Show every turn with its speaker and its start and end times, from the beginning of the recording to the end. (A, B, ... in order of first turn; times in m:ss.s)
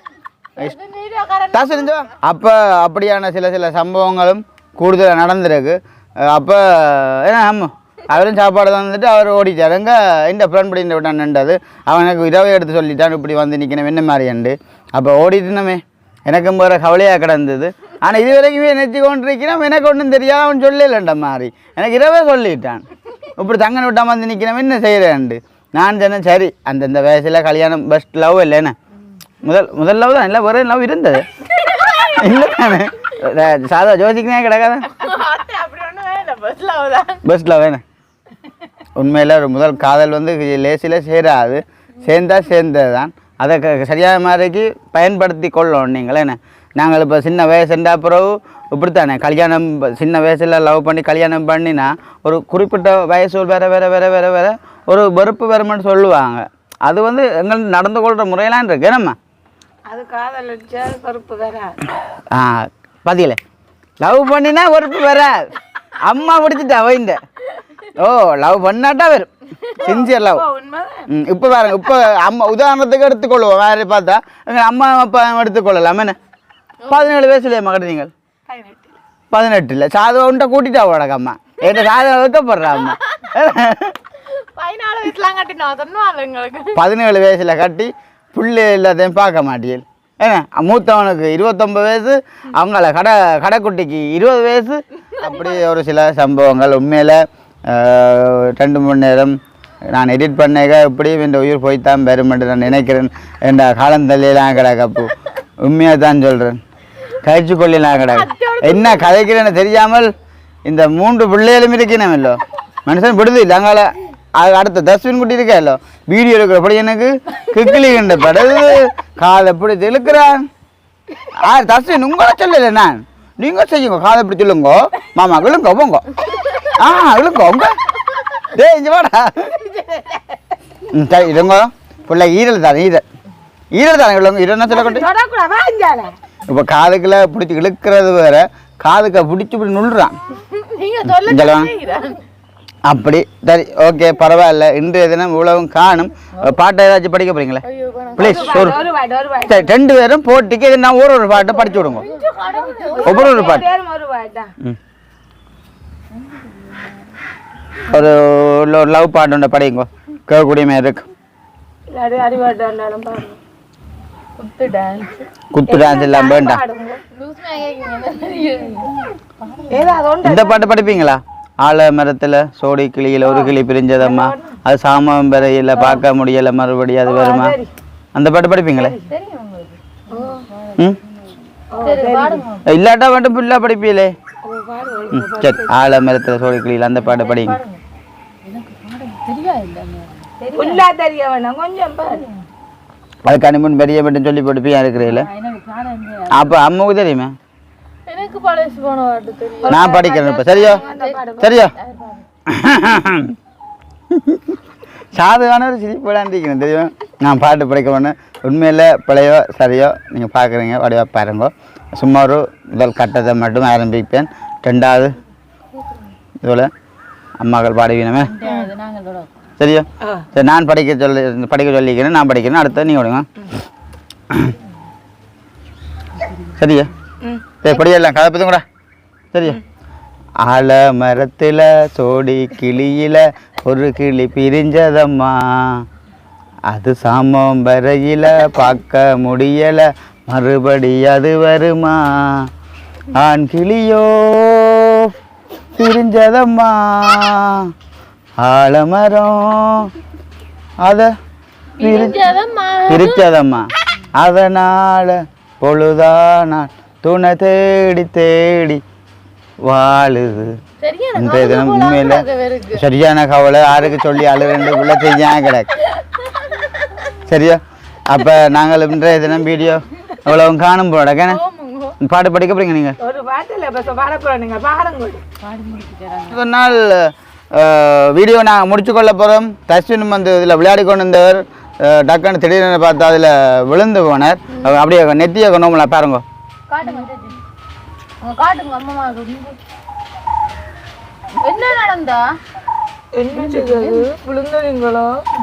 0:00.6-0:02.1 A
0:01.5-0:22.9 B
0:23.4-0:28.8 B
0:29.4-0:31.3 B
0:31.4-0:32.9 A
0:32.1-0:35.0 B
0:34.9-0:37.2 A
0:37.2-0:37.8 B
0:39.0-0:59.2 B
0:59.9-1:01.8 C
1:02.3-1:03.4 B
1:04.0-1:07.2 B
1:07.9-1:10.4 B
1:09.8-1:11.1 C
1:11.1-1:16.2 B
1:16.8-1:17.1 A
1:16.9-1:18.1 B
1:18.5-1:18.9 A
1:19.3-1:24.0 B
1:21.6-1:21.9 A
1:22.6-1:23.3 A
1:24.3-1:26.8 A
1:26.8-1:39.4 B
1:35.1-1:35.6 A
1:39.9-1:46.6 B
1:47.2-1:50.1 B
1:48.0-1:49.3 A
1:50.7-2:00.5 B
2:01.3-2:07.8 B
2:06.3-2:06.6 A
2:08.5-2:09.6 B
2:09.5-2:10.3 A
2:10.9-2:13.0 B
2:13.7-2:15.1 B
2:14.7-2:16.2 C
2:16.5-2:20.2 B
2:20.3-2:22.2 A
2:21.1-2:21.7 B
2:22.8-2:27.6 B
2:26.3-2:26.6 A
2:27.6-2:28.8 A
2:28.2-2:28.8 B
2:28.2-2:29.8 C
2:29.5-2:32.0 B
2:31.8-2:33.7 A
2:32.0-2:34.5 C
2:33.0-2:33.7 B
2:36.1-2:37.1 A
2:37.9-2:41.1 B
2:41.9-2:43.4 C
2:44.4-2:45.3 A
2:45.5-2:46.6 B
2:45.7-2:47.0 C
2:47.1-2:50.0 A
2:49.7-2:50.6 C
2:50.2-2:57.6 B
2:53.2-2:54.6 C
2:55.8-2:56.0 C
2:57.1-2:57.7 C
2:58.2-2:59.0 B
2:58.8-3:02.7 A
3:00.1-3:00.5 C
3:01.7-3:02.5 C
3:02.6-3:04.1 B
3:04.4-3:06.0 C
3:05.1-3:07.6 B
3:07.0-3:07.8 A
3:08.4-3:10.8 A
3:10.5-3:12.4 C
3:13.2-3:15.3 B
3:15.0-3:16.5 A
3:16.3-3:17.3 B
3:18.1-3:22.2 A
3:19.6-3:21.6 C
3:19.7-3:20.8 B
3:21.4-3:21.7 B
3:22.5-3:23.4 B
3:24.1-3:24.6 B
3:25.1-3:35.1 B
3:36.4-3:36.7 B
3:37.4-3:38.3 B
3:38.2-3:39.3 A
3:39.6-3:43.3 B
3:40.0-3:40.3 C
3:46.2-3:46.5 A
3:46.6-3:46.9 B
3:47.6-3:48.6 B
3:49.3-3:49.6 B
3:50.4-3:55.8 B
3:56.7-4:02.5 B
4:03.1-4:05.1 B
4:05.8-4:07.7 B
4:08.4-4:09.9 B
4:10.8-4:11.1 B
4:11.8-4:13.3 A
4:11.8-4:12.2 B
4:12.9-4:18.8 B
4:19.6-4:20.6 B
4:20.8-4:22.8 A
4:21.2-4:25.7 B
4:27.3-4:31.4 B
4:31.3-4:32.0 A
4:32.0-4:33.0 B
4:33.0-4:35.2 C
4:35.4-4:36.4 A
4:36.3-4:46.2 B
4:46.7-4:47.4 A
4:48.2-4:49.6 A
4:51.4-4:52.3 A
4:53.2-4:55.2 C
4:53.4-4:54.0 A